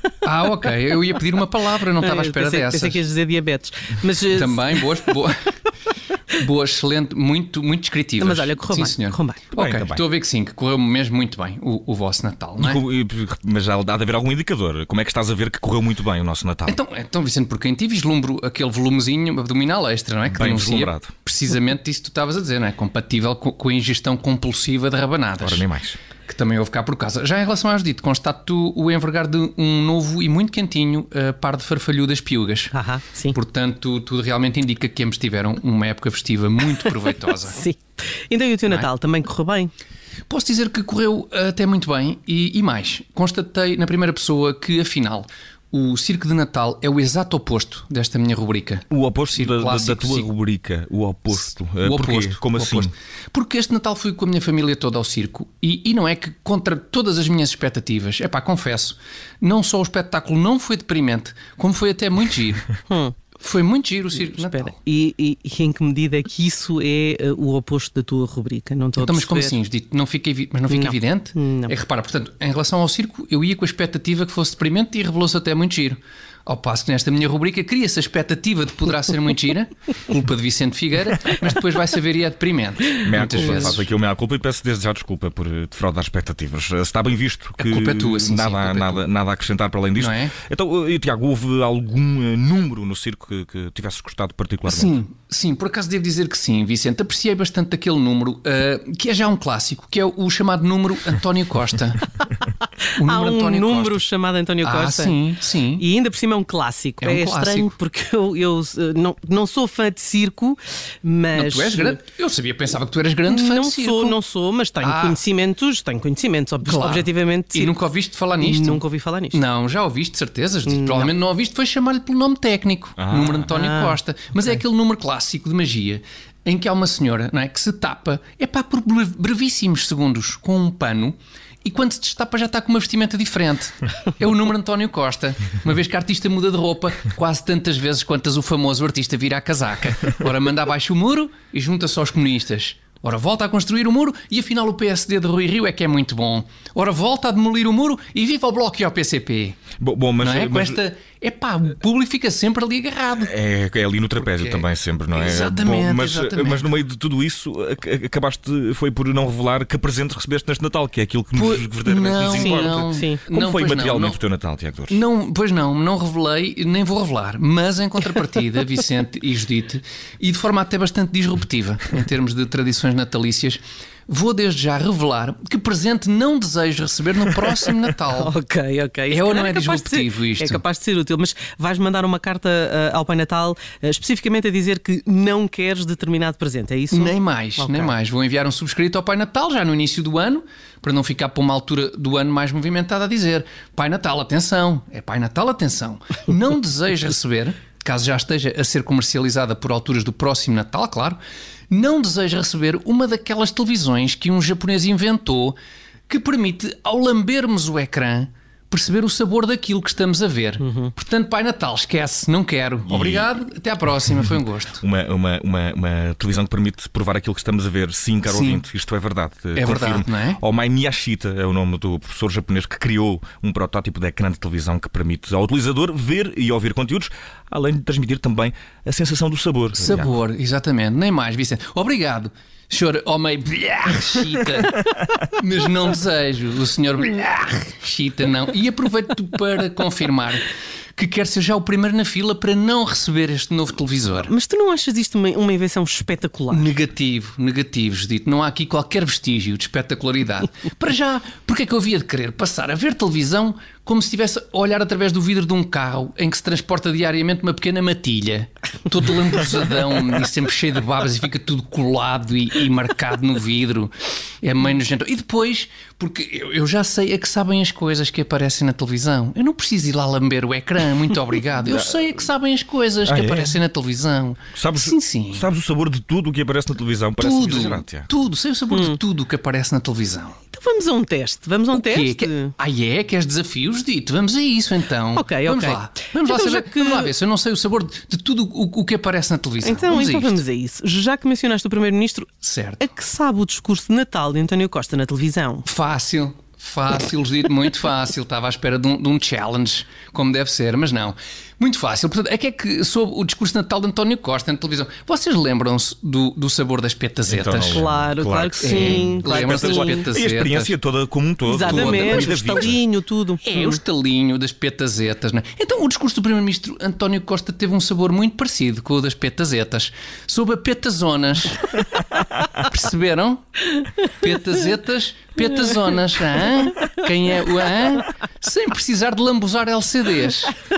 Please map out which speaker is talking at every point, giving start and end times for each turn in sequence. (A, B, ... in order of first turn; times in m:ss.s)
0:00.2-0:03.0 A
0:02.0-0:04.9 B
0:04.3-0:05.4 A
0:06.4-0:12.8 A
0:08.2-0:09.4 B
0:09.5-0:10.0 C
0:12.6-0:16.8 C
0:16.7-0:25.7 A
0:20.3-0:21.1 C
0:25.4-0:26.0 C
0:26.2-0:32.7 A
0:32.7-0:33.4 B
0:33.3-0:37.6 A
0:37.5-0:39.7 B
0:40.3-0:50.3 A
0:48.9-0:52.9 C
0:51.8-1:02.7 A
1:02.9-1:03.2 B
1:03.4-1:04.8 A
1:04.2-1:09.6 B
1:09.0-1:23.9 A
1:10.7-1:11.7 B
1:23.0-1:35.0 C
1:27.6-1:29.0 A
1:30.0-1:30.3 A
1:34.7-1:42.1 A
1:43.0-1:44.0 A
1:43.0-1:45.2 B
1:44.6-1:45.9 A
1:45.8-1:52.0 B
1:47.0-1:47.7 A
1:51.3-1:54.2 A
1:53.3-1:57.8 B
1:54.8-1:55.2 A
1:56.6-2:29.6 A
1:58.4-1:59.4 B
2:00.7-2:01.1 B
2:03.0-2:03.5 C
2:03.5-2:04.0 B
2:29.8-2:30.8 C
2:30.2-2:33.3 A
2:33.2-2:45.0 C
2:34.2-2:36.7 A
2:41.3-2:44.2 A
2:42.3-2:43.2 B
2:44.9-2:58.3 A
2:58.1-3:07.9 B
2:59.1-3:00.6 A
3:06.9-3:21.2 A
3:21.7-3:25.6 A
3:26.1-3:34.8 A
3:30.6-3:30.9 B
3:32.9-3:33.3 C
3:34.8-3:50.1 C
3:38.2-3:38.6 A
3:39.6-3:40.4 A
3:49.8-4:04.3 A
4:04.2-4:06.7 B
4:06.5-4:35.5 A
4:33.0-4:33.6 C
4:34.6-4:38.1 C
4:37.2-4:40.4 A
4:38.7-4:39.0 B
4:40.5-4:42.5 B
4:41.7-4:50.4 A
4:45.2-4:47.1 B
4:49.6-4:52.3 B
4:52.4-4:52.9 A
4:52.8-4:55.6 B
4:55.6-5:07.8 A
5:07.3-5:12.8 C
5:07.7-5:10.0 B
5:08.6-5:10.8 A
5:11.4-5:13.8 B
5:11.6-5:12.8 A
5:13.4-5:21.8 A
5:22.5-5:30.6 A